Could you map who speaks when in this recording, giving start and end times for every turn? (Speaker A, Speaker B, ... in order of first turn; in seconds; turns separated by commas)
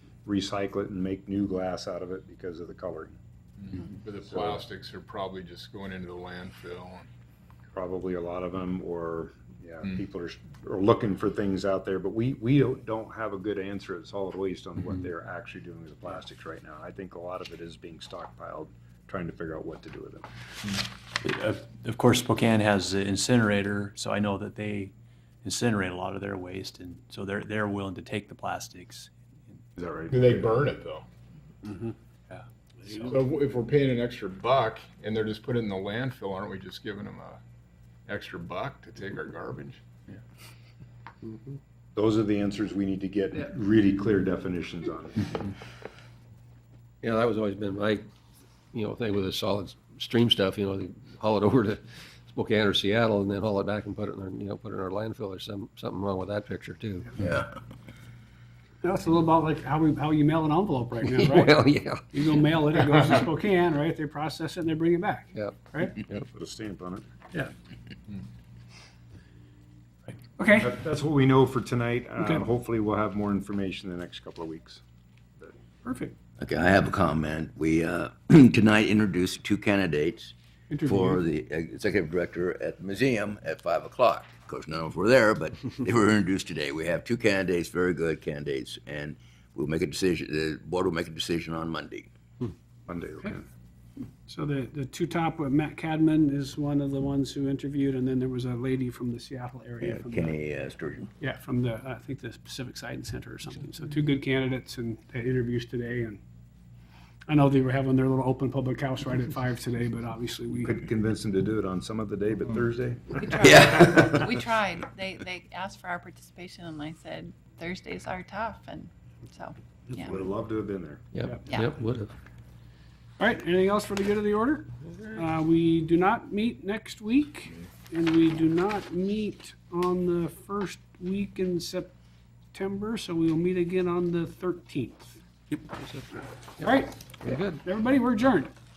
Speaker A: 0.2-3.1, Speaker B: 3.6-7.1, Speaker A: 4.2-4.6, Speaker A: 7.7-20.3, Speaker C: 21.2-24.9, Speaker C: 25.4-29.6, Speaker A: 29.8-30.6, Speaker B: 30.1-31.1, Speaker D: 31.6-31.9, Speaker D: 32.8-33.1, Speaker B: 33.0-37.4, Speaker B: 38.1-39.8, Speaker E: 41.2-41.6, Speaker A: 41.9-45.5, Speaker E: 47.0-48.1, Speaker E: 48.7-57.2, Speaker F: 57.2-57.5, Speaker D: 58.8-66.0, Speaker E: 61.0-62.5, Speaker E: 65.3-66.3, Speaker A: 66.3-67.0, Speaker D: 70.4-70.7, Speaker A: 70.6-74.8, Speaker D: 72.2-72.5, Speaker D: 75.8-76.1, Speaker F: 76.4-80.3, Speaker D: 80.7-81.2, Speaker F: 80.8-92.1, Speaker A: 92.9-93.4, Speaker D: 94.2-100.3, Speaker F: 99.8-101.1, Speaker D: 101.2-106.2, Speaker D: 107.3-110.7, Speaker A: 110.6-114.2, Speaker G: 113.4-120.2, Speaker F: 113.4-114.1, Speaker A: 120.0-121.0, Speaker E: 121.1-122.1, Speaker D: 123.2-132.0, Speaker D: 132.5-135.2, Speaker E: 135.5-137.6, Speaker D: 136.6-138.5